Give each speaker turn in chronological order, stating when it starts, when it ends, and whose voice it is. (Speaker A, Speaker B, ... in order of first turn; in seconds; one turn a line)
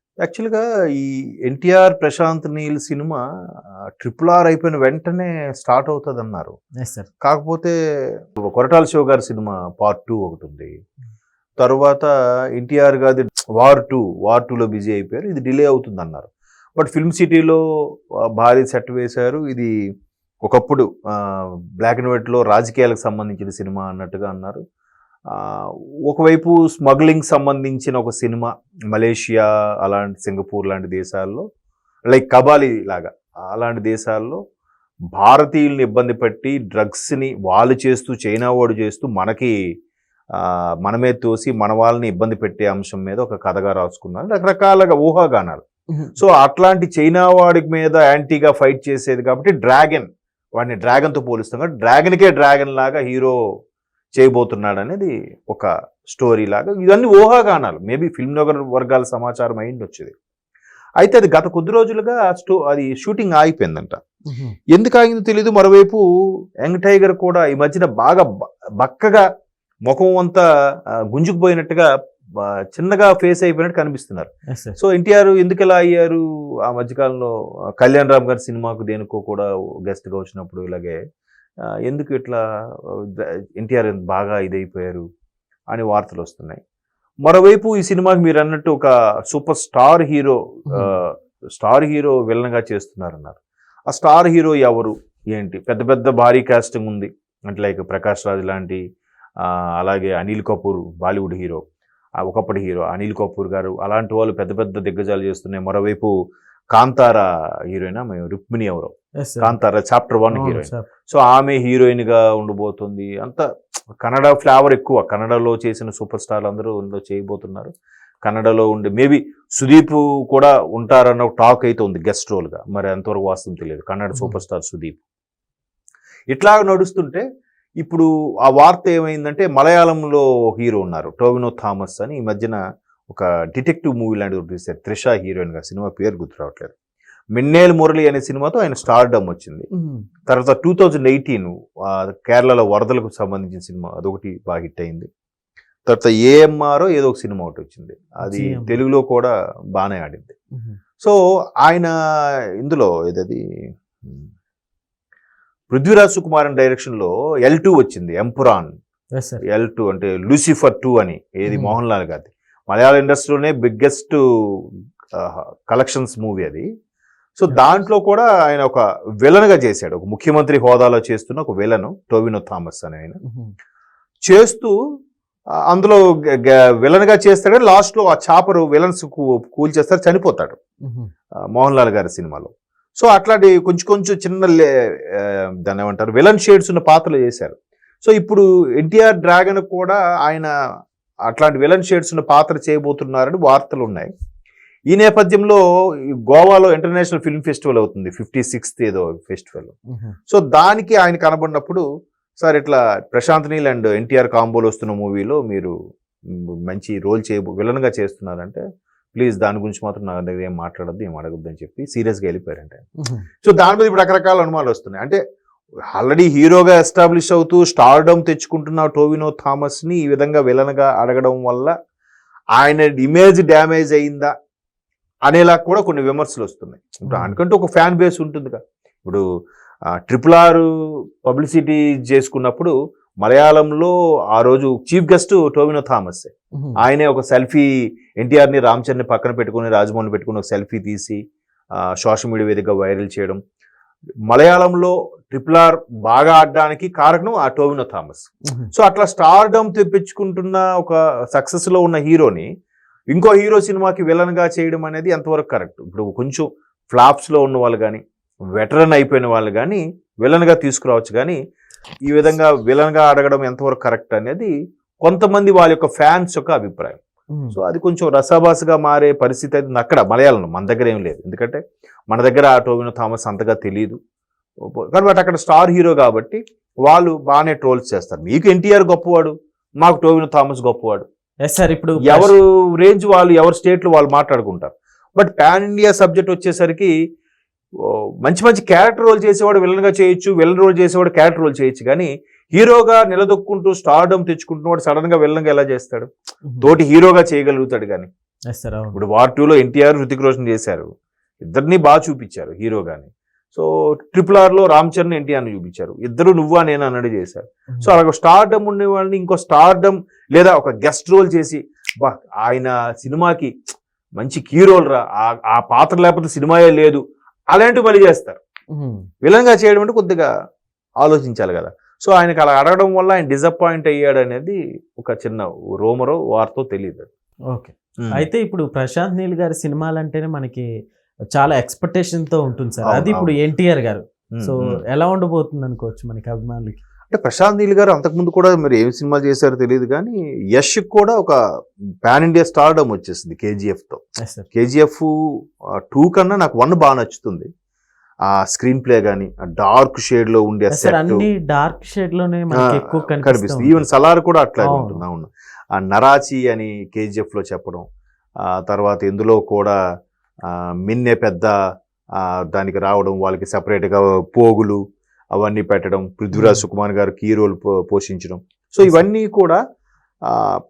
Speaker A: 0.2-3.2
Speaker A: 4.0-6.5
Speaker B: 6.8-7.1
Speaker A: 7.2-7.8
Speaker A: 8.4-10.7
Speaker A: 11.6-17.6
Speaker A: 18.4-19.7
Speaker A: 20.4-24.6
Speaker A: 25.3-31.4
Speaker A: 32.1-34.4
Speaker A: 35.2-39.5
Speaker A: 40.4-45.6
Speaker B: 45.9-46.2
Speaker A: 46.2-53.4
Speaker A: 54.2-60.1
Speaker A: 61.0-64.0
Speaker B: 64.3-64.6
Speaker A: 64.7-66.0
Speaker A: 66.6-68.3
Speaker A: 68.8-69.2
Speaker A: 69.9-70.4
Speaker A: 71.1-81.0
Speaker B: 74.5-74.8
Speaker A: 81.8-85.0
Speaker A: 85.7-86.6
Speaker A: 87.2-98.8
Speaker A: 99.4-101.6
Speaker A: 102.2-106.1
Speaker A: 106.7-113.5
Speaker B: 109.2-109.5
Speaker B: 110.3-110.9
Speaker A: 114.0-117.7
Speaker A: 118.2-125.0
Speaker B: 124.2-124.4
Speaker A: 126.3-127.2
Speaker A: 127.8-132.6
Speaker A: 133.1-136.7
Speaker A: 137.3-139.7
Speaker B: 139.7-140.1
Speaker A: 140.3-145.1
Speaker A: 145.9-150.3
Speaker B: 148.2-148.8
Speaker A: 151.0-151.9
Speaker A: 152.6-153.4
Speaker A: 154.0-154.3
Speaker A: 155.7-158.7
Speaker B: 159.2-159.4
Speaker A: 159.5-164.6
Speaker B: 161.5-161.8
Speaker A: 165.2-166.7
Speaker A: 167.4-173.2
Speaker B: 173.2-173.5
Speaker A: 174.3-174.7
Speaker A: 175.7-180.6
Speaker B: 180.8-181.1
Speaker A: 181.6-190.5
Speaker A: 191.3-194.1
Speaker A: 194.9-195.6
Speaker A: 196.3-199.8
Speaker B: 199.9-200.2
Speaker A: 200.3-201.8
Speaker A: 202.4-205.7
Speaker A: 206.7-208.6
Speaker A: 209.2-212.8
Speaker B: 213.0-213.2
Speaker A: 213.4-215.2
Speaker A: 215.9-221.7
Speaker A: 222.6-224.3
Speaker A: 225.3-229.2
Speaker B: 227.1-227.4
Speaker A: 230.1-230.7
Speaker A: 231.2-241.2
Speaker A: 241.8-243.4
Speaker A: 244.3-252.5
Speaker A: 253.1-258.0
Speaker A: 258.6-261.4
Speaker A: 262.0-267.0
Speaker A: 267.5-274.0
Speaker A: 274.8-281.1
Speaker B: 281.4-282.3
Speaker A: 282.0-286.9
Speaker A: 287.8-296.1
Speaker B: 296.5-296.7
Speaker A: 296.6-298.1
Speaker B: 298.5-299.0
Speaker A: 298.9-300.9
Speaker A: 301.4-313.5
Speaker A: 314.2-317.0
Speaker A: 317.5-318.4
Speaker B: 318.7-319.1
Speaker A: 319.2-320.3
Speaker A: 321.0-327.1
Speaker B: 327.5-330.7
Speaker A: 328.0-328.2
Speaker B: 331.3-336.8
Speaker A: 332.8-333.4
Speaker A: 334.4-334.8
Speaker A: 337.1-341.4
Speaker A: 342.1-344.0
Speaker B: 344.2-344.5
Speaker A: 344.5-345.1
Speaker A: 345.9-347.5
Speaker A: 348.3-351.3
Speaker B: 350.7-353.9
Speaker A: 352.6-357.9
Speaker B: 354.6-355.0
Speaker A: 358.4-359.8
Speaker A: 360.5-361.5
Speaker A: 362.2-364.8
Speaker A: 365.4-369.6
Speaker B: 366.3-366.6
Speaker A: 370.3-370.6